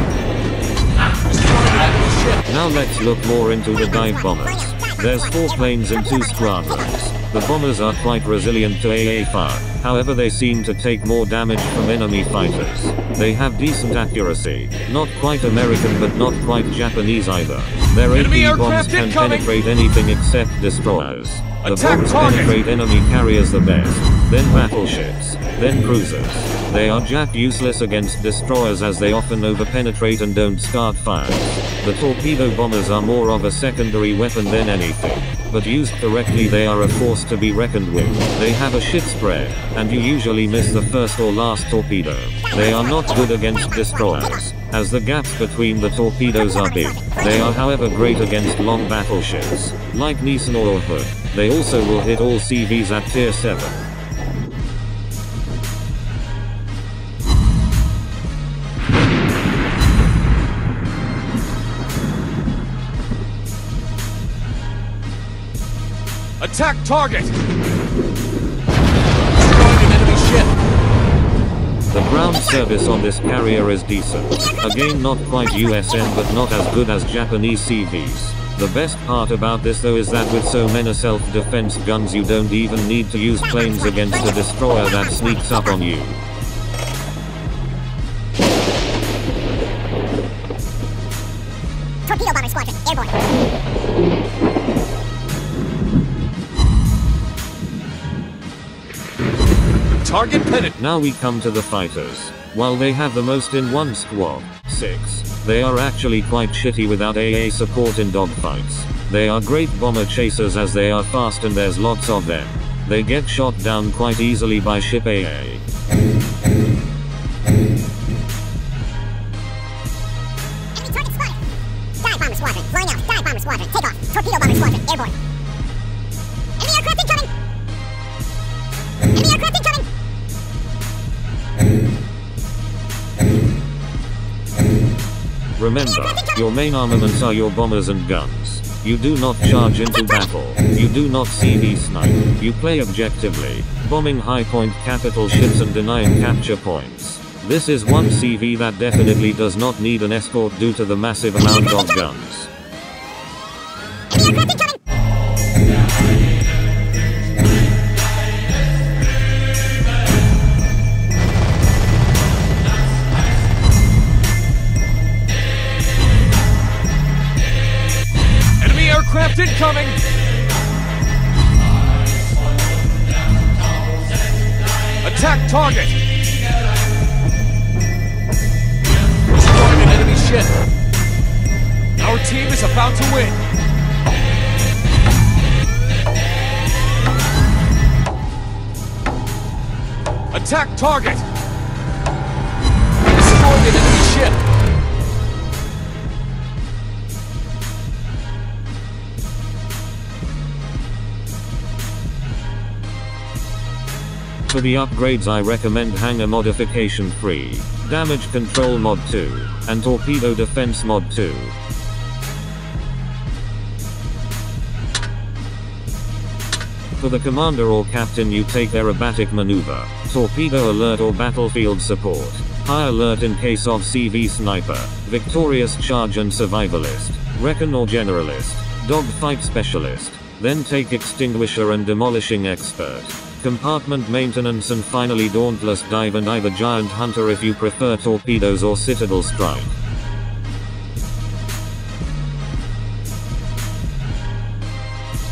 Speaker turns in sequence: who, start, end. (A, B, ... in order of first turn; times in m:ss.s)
0:01.3-0:02.4 A
0:02.5-0:53.8 B
0:18.1-0:19.5 A
0:21.6-0:22.6 A
1:06.4-1:07.4 A
1:09.4-1:10.5 A
1:11.9-1:26.2 B
1:32.1-1:33.1 C
1:40.0-1:40.8 A
1:40.8-1:55.6 B
2:00.8-2:01.4 C
2:02.0-2:05.1 C
2:06.7-2:07.2 C
2:15.6-2:32.5 B
2:48.6-2:50.0 A
2:55.0-2:56.0 A
2:59.3-3:00.5 A
3:02.0-3:03.4 A
3:10.3-3:11.3 A
3:13.1-3:14.4 A
3:24.5-3:31.6 B
3:37.0-3:59.8 B